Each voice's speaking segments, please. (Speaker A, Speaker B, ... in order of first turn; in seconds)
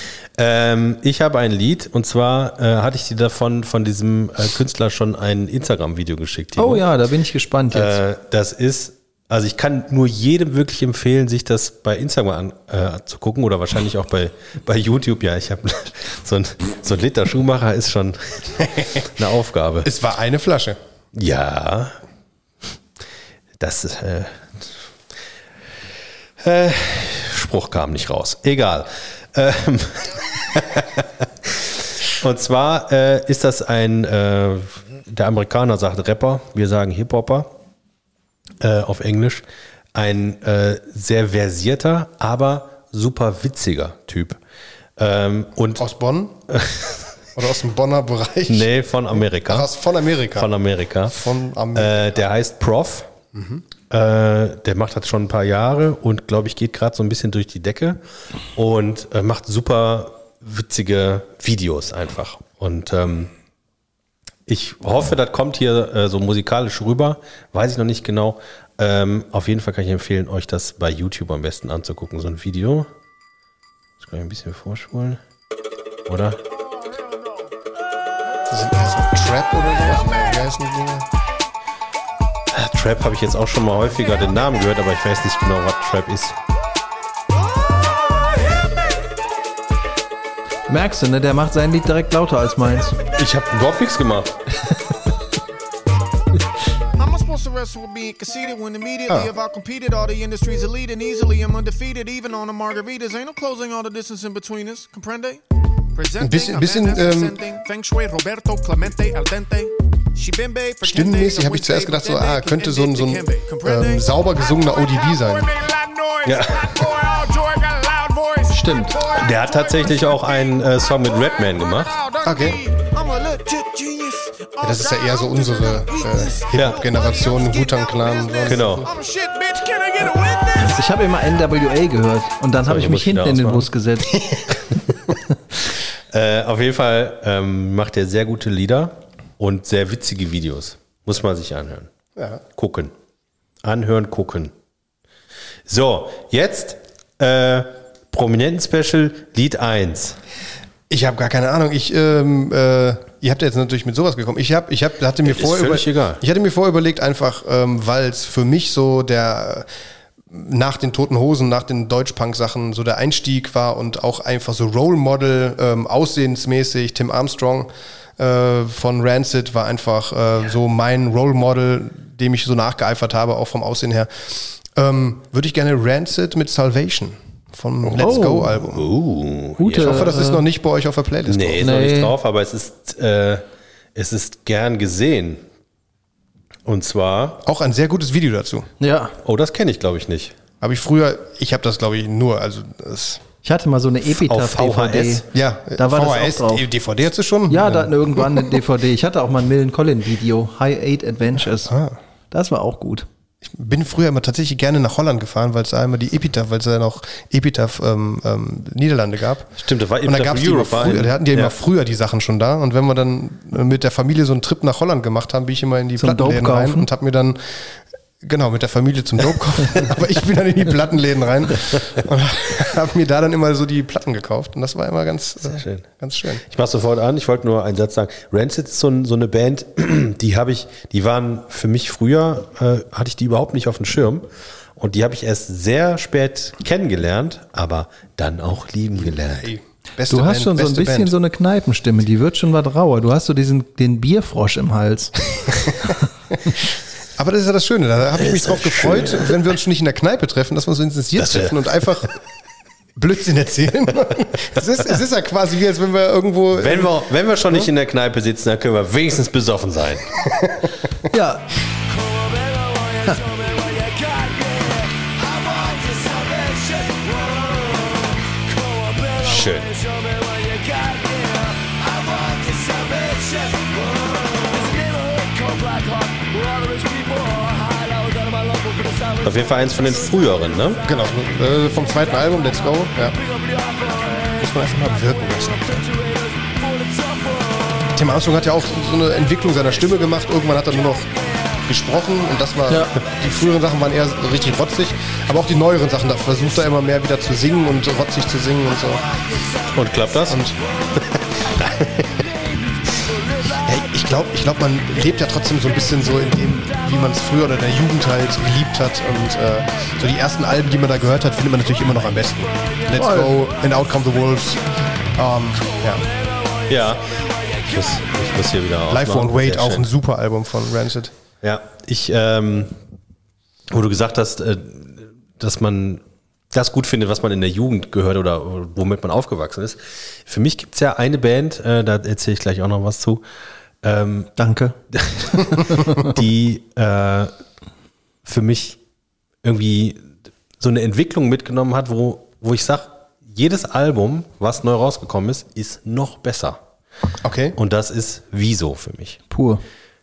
Speaker A: 0.4-6.9, 7.7-19.9, 21.1-21.9, 23.6-24.8, 26.4-37.5, 38.6-44.4, 45.0-45.8, 46.5-47.1, 48.5-49.7, 50.3-51.2, 51.8-53.1, 53.9-58.0, 58.6-63.3, 64.5-72.9, 74.0-75.2, 76.1-76.4, 82.5-86.4, 93.1-94.4, 116.3-116.7, 119.1-122.0, 126.5-126.8, 128.4-128.9, 132.6-133.7, 136.1-141.9, 142.6-142.9, 143.6-144.5, 145.7-150.2, 155.2-156.2, 178.0-180.1, 181.3-185.4, 186.7-187.4, 189.2-190.3, 194.2-195.2, 209.6-211.5, 225.4-225.9, 226.4-239.5, 248.2-249.4, 251.2-252.0, 256.6-260.2, 269.1-269.8, 279.1-280.8, 299.7-300.4, 300.9-302.3, 316.7-319.9, 321.4-322.8, 323.7-333.2, 333.8-334.3, 334.9-337.3, 338.2-338.8, 339.4-346.6, 347.6-349.2
Speaker B: 6.6-8.0, 90.7-93.0, 118.5-119.0, 130.6-134.2, 178.0-178.5, 179.6-180.4, 181.6-182.2, 188.8-189.2, 193.4-195.3, 195.8-196.7, 197.5-201.7, 202.3-203.1, 216.0-216.9, 240.1-245.2, 261.1-261.5, 292.7-292.9, 312.9-313.3, 334.4-334.8, 349.3-349.6
Speaker C: 19.8-20.8, 45.8-46.4, 47.4-48.7, 49.3-50.5, 51.1-52.1, 53.3-53.6, 78.5-81.1, 106.2-107.4, 110.8-115.5, 122.2-122.6, 124.6-128.9, 142.2-142.4, 150.9-159.7, 160.3-178.9, 179.7-181.7, 187.4-188.7, 190.6-193.2, 195.3-198.4, 201.7-201.9, 203.4-217.6, 218.2-226.4, 239.2-241.1, 247.2-252.2, 252.9-256.9, 280.8-283.2, 284.3-285.9, 287.9-299.1, 300.3-300.6, 303.6-314.6, 315.1-316.1, 318.9-321.1, 347.2-347.6
Speaker D: 97.0-105.4, 105.9-120.2, 121.8-130.8, 263.4-264.4, 265.5-266.7, 270.9-271.4, 274.7-277.7